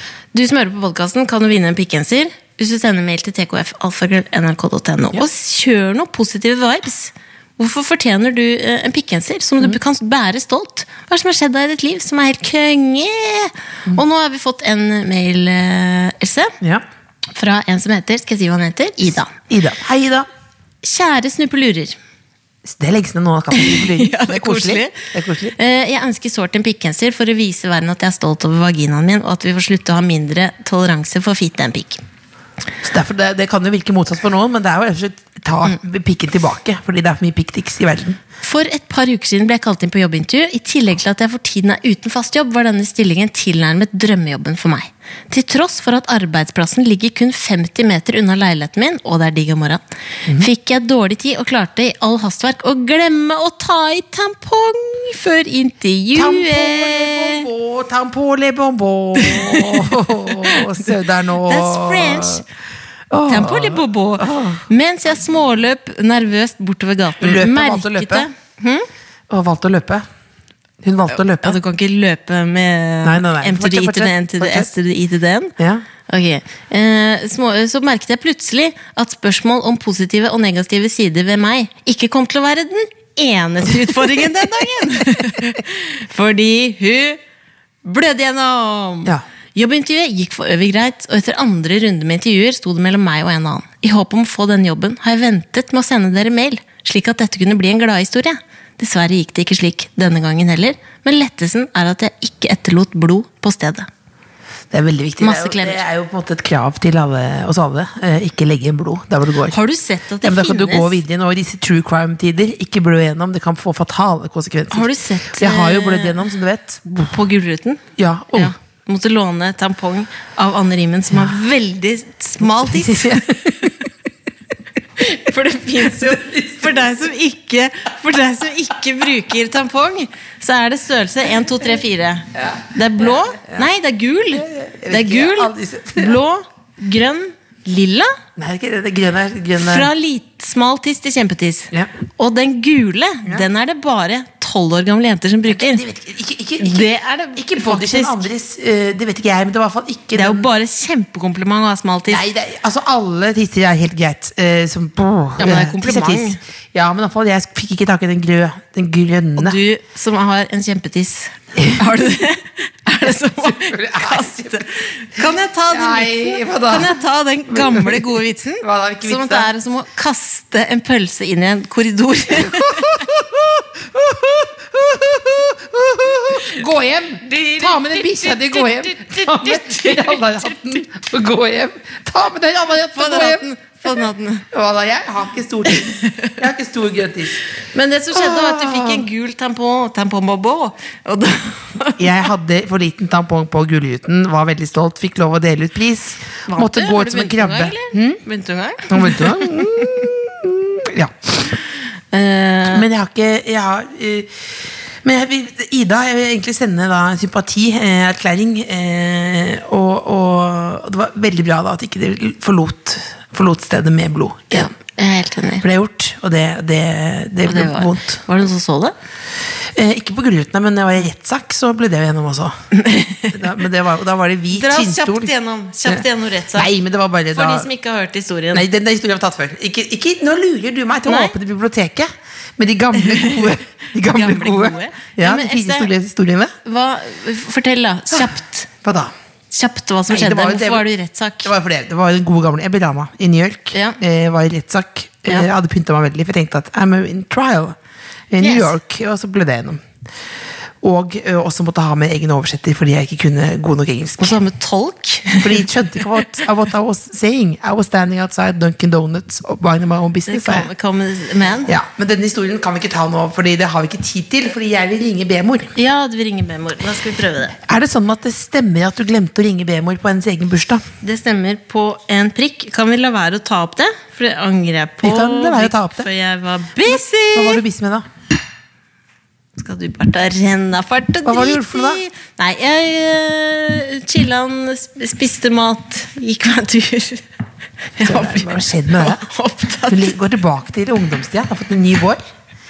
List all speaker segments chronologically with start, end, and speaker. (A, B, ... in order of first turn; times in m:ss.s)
0:00.3-0:16.5 A
0:17.3-0:19.3 A
0:19.5-0:20.3 B
0:20.8-0:22.0 A
0:22.6-0:25.6 B
0:23.5-0:32.0 A
0:32.8-0:38.2 B
0:38.4-0:57.5 A
0:56.1-1:02.4 B
0:59.2-1:00.9 A
1:01.4-1:02.4 A
1:03.1-1:04.6 B
1:03.3-1:08.9 A
1:07.2-1:08.3 B
1:09.3-1:10.0 B
1:10.8-1:11.6 B
1:11.4-1:15.5 A
1:13.0-1:14.7 B
1:15.6-1:15.8 B
1:16.1-1:27.2 A
1:27.8-1:43.9 A
1:44.7-1:49.6 B
1:45.2-1:45.8 A
1:49.5-1:51.0 A
1:50.2-1:57.1 B
1:54.7-1:56.2 A
1:57.0-2:03.7 A
1:58.0-1:58.5 B
2:02.6-2:03.7 B
2:05.0-2:18.1 A
2:05.8-2:06.9 B
2:12.4-2:13.7 B
2:14.3-2:16.2 B
2:18.4-2:19.9 B
2:19.6-2:25.8 A
2:25.5-2:30.5 B
2:26.6-2:28.3 A
2:30.1-2:32.2 A
2:32.1-2:39.6 B
2:35.4-2:36.4 A
2:39.4-2:53.0 A
2:41.6-2:41.8 B
2:43.0-2:44.6 B
2:45.2-2:49.5 B
2:52.3-3:07.4 B
2:57.2-3:00.9 A
3:02.9-3:04.5 A
3:05.9-3:06.3 A
3:07.7-3:12.1 A
3:08.1-3:09.1 B
3:12.0-3:18.2 B
3:16.5-3:20.0 A
3:18.9-3:21.6 B
3:22.1-3:22.8 A
3:22.7-3:34.7 B
3:34.5-3:35.6 A
3:35.6-3:38.2 B
3:37.5-3:38.9 A
3:39.8-3:42.5 B
3:42.7-3:43.4 A
3:43.3-3:45.3 B
3:44.5-3:46.7 A
3:45.8-3:47.7 B
3:47.3-3:48.6 A
3:48.5-3:56.5 B
3:51.0-3:51.3 A
3:53.0-3:53.5 A
3:54.0-3:55.9 A
3:56.6-3:58.7 A
3:58.8-3:59.1 B
3:59.5-4:01.5 A
4:00.1-4:00.9 B
4:01.4-4:07.8 B
4:03.7-4:04.0 A
4:08.3-4:09.8 B
4:08.4-4:08.7 A
4:10.8-4:14.4 B
4:14.2-4:16.2 A
4:15.4-4:20.7 B
4:20.3-4:21.8 A
4:21.7-4:25.7 B
4:25.8-4:27.6 A
4:27.6-4:30.8 B
4:31.0-4:37.6 A
4:35.0-4:36.1 B
4:36.8-4:38.1 B
4:39.6-4:47.2 A
4:41.2-4:42.0 B
4:48.0-4:50.1 A
4:48.0-4:49.2 B
4:49.9-4:52.2 B